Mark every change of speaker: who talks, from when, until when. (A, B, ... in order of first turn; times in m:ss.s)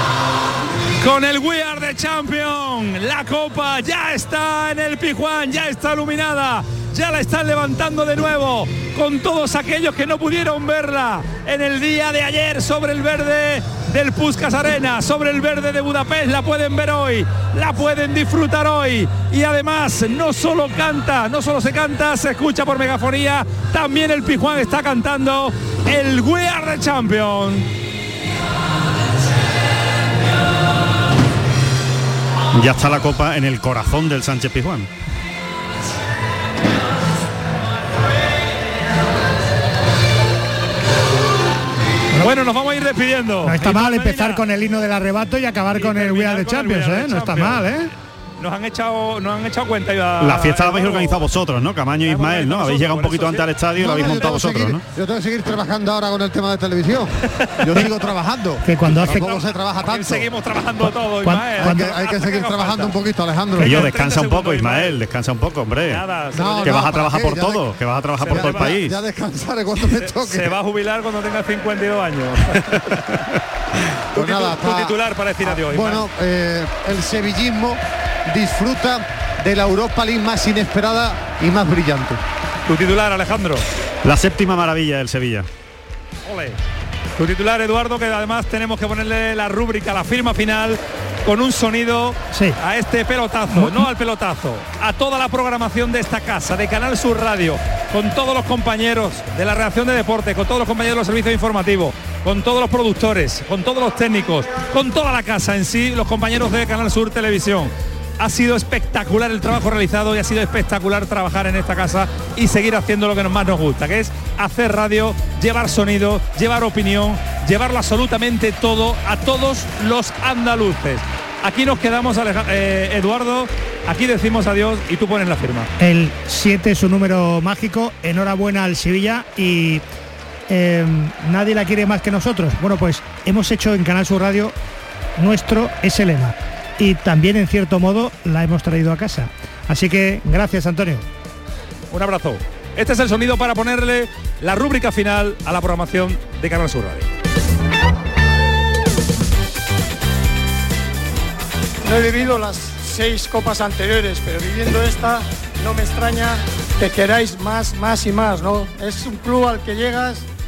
0:01.0-0:27.7 A
0:32.5-0:34.9 B
0:42.1-0:44.4 A
0:43.4-0:47.9 C
0:45.7-0:47.7 A
0:48.4-0:51.2 A
0:50.2-0:54.8 B
0:52.1-0:54.3 A
0:53.8-1:00.3 D
0:57.4-0:57.8 A
0:58.6-0:59.3 C
0:58.9-1:02.9 A
1:00.8-1:01.9 C
1:01.6-1:03.9 D
1:03.6-1:05.0 A
1:03.6-1:06.0 B
1:05.9-1:06.8 A
1:06.3-1:07.6 D
1:06.6-1:08.9 B
1:08.2-1:08.8 A
1:08.3-1:10.6 D
1:09.9-1:13.1 A
1:14.1-1:16.0 A
1:14.1-1:22.2 D
1:22.7-1:23.6 A
1:24.0-1:25.5 B
1:26.2-1:26.6 A
1:27.2-2:05.7 A
1:32.3-1:32.6 C
1:33.5-1:33.9 C
2:05.8-2:09.8 C
2:10.5-2:14.6 C
2:15.2-2:21.0 C
2:21.9-2:27.1 A
2:31.8-2:40.2 E